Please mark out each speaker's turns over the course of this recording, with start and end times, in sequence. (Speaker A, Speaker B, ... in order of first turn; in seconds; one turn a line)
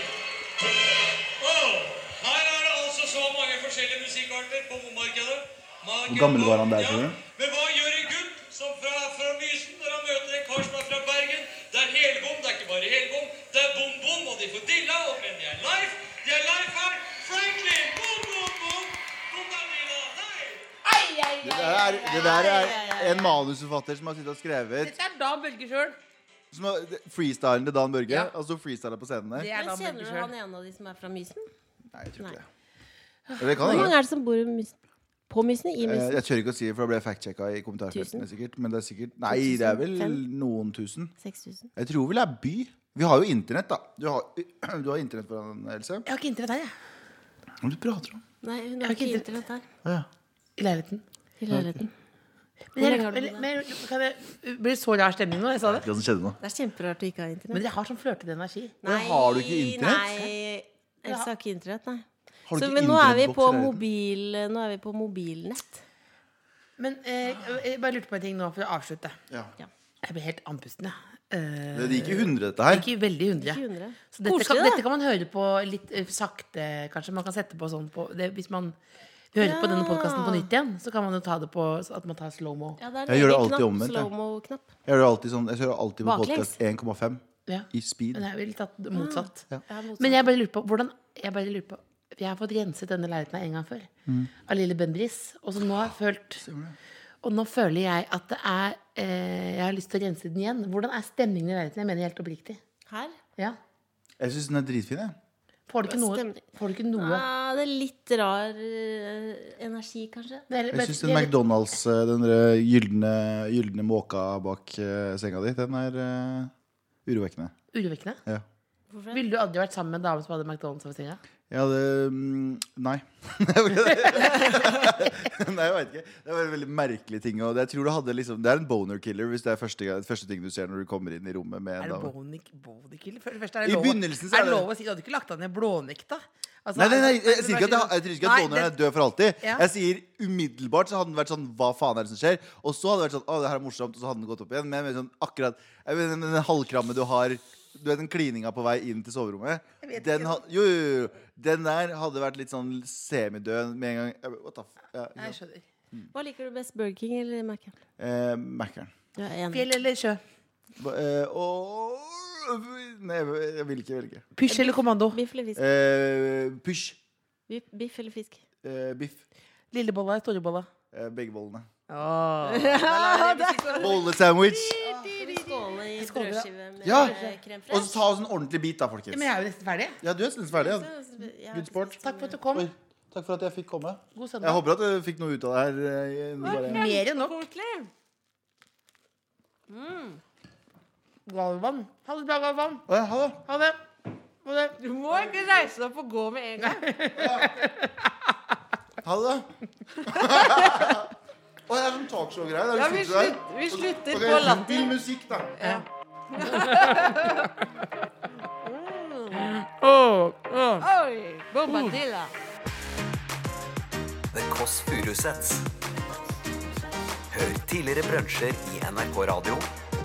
Speaker A: 1.4-20.7
Speaker B: 6.1-7.2
Speaker C: 20.8-22.8
Speaker B: 21.4-24.9
Speaker D: 22.1-23.4
Speaker C: 24.8-26.0
Speaker B: 26.5-29.5
Speaker C: 29.4-30.3
Speaker D: 29.5-31.4
Speaker B: 31.9-32.5
Speaker C: 33.3-33.9
Speaker B: 33.4-33.9
Speaker D: 33.6-34.7
Speaker D: 35.3-36.2
Speaker B: 35.8-41.1
Speaker D: 37.9-38.2
Speaker D: 39.3-40.2
Speaker D: 41.2-41.7
Speaker B: 41.8-46.0
Speaker C: 46.1-46.7
Speaker B: 47.6-48.2
Speaker D: 48.4-49.6
Speaker C: 48.8-49.3
Speaker C: 50.6-51.0
Speaker D: 51.4-51.9
Speaker B: 51.5-51.8
Speaker C: 52.7-55.9
Speaker D: 52.8-53.5
Speaker B: 55.7-56.4
Speaker D: 56.4-57.6
Speaker C: 57.5-58.8
Speaker D: 58.8-65.8
Speaker B: 58.8-60.3
Speaker B: 62.5-63.8
Speaker C: 66.8-69.2
Speaker C: 70.0-78.7
Speaker B: 71.7-72.9
Speaker D: 73.4-74.8
Speaker C: 79.3-82.8
Speaker D: 79.4-80.5
Speaker D: 82.8-84.7
Speaker B: 83.1-84.1
Speaker B: 84.8-88.2
Speaker D: 86.0-86.6
Speaker C: 87.5-89.5
Speaker D: 88.9-90.3
Speaker C: 90.0-93.9
Speaker C: 94.4-96.4
Speaker B: 96.4-96.8
Speaker C: 97.2-102.6
Speaker D: 102.9-103.2
Speaker B: 104.2-105.2
Speaker C: 105.7-107.2
Speaker D: 105.8-106.4
Speaker D: 106.9-110.4
Speaker C: 110.5-111.3
Speaker B: 110.7-116.5
Speaker B: 117.0-117.5
Speaker C: 117.7-118.2
Speaker D: 118.9-119.2
Speaker C: 119.1-121.2
Speaker B: 121.5-132.1
Speaker C: 131.8-138.7
Speaker B: 133.6-134.7
Speaker B: 136.7-155.4
Speaker C: 149.8-150.4
Speaker C: 155.2-155.6
Speaker D: 156.1-157.7
Speaker B: 158.0-158.9
Speaker D: 159.2-159.7
Speaker C: 159.5-160.2
Speaker B: 160.8-164.2
Speaker C: 164.3-165.2
Speaker D: 164.5-165.6
Speaker B: 165.6-167.0
Speaker D: 167.5-168.4
Speaker B: 168.6-169.2
Speaker C: 169.7-170.7
Speaker B: 170.9-171.7
Speaker C: 171.9-174.2
Speaker D: 172.4-178.0
Speaker B: 173.8-174.9
Speaker C: 174.7-177.4
Speaker B: 176.8-177.2
Speaker B: 177.7-179.3
Speaker C: 179.1-180.0
Speaker B: 180.0-180.9
Speaker D: 180.5-182.4
Speaker B: 181.5-182.0
Speaker C: 182.0-182.7
Speaker B: 182.5-186.9
Speaker C: 184.2-184.6
Speaker D: 186.4-187.9
Speaker C: 186.4-187.4
Speaker D: 189.7-190.2
Speaker C: 191.2-192.8
Speaker B: 192.9-193.4
Speaker C: 193.4-193.8
Speaker C: 194.4-194.7
Speaker D: 194.7-196.9
Speaker C: 196.6-198.1
Speaker B: 197.1-197.6
Speaker B: 199.0-199.5
Speaker D: 200.0-200.9
Speaker B: 200.0-201.1
Speaker B: 201.7-205.6
Speaker D: 202.7-204.9
Speaker D: 205.6-207.7
Speaker C: 206.4-207.4
Speaker D: 208.4-209.6
Speaker C: 209.4-210.8
Speaker D: 210.8-212.3
Speaker C: 211.7-211.9
Speaker E: 214.3-215.7
Speaker E: 217.3-219.7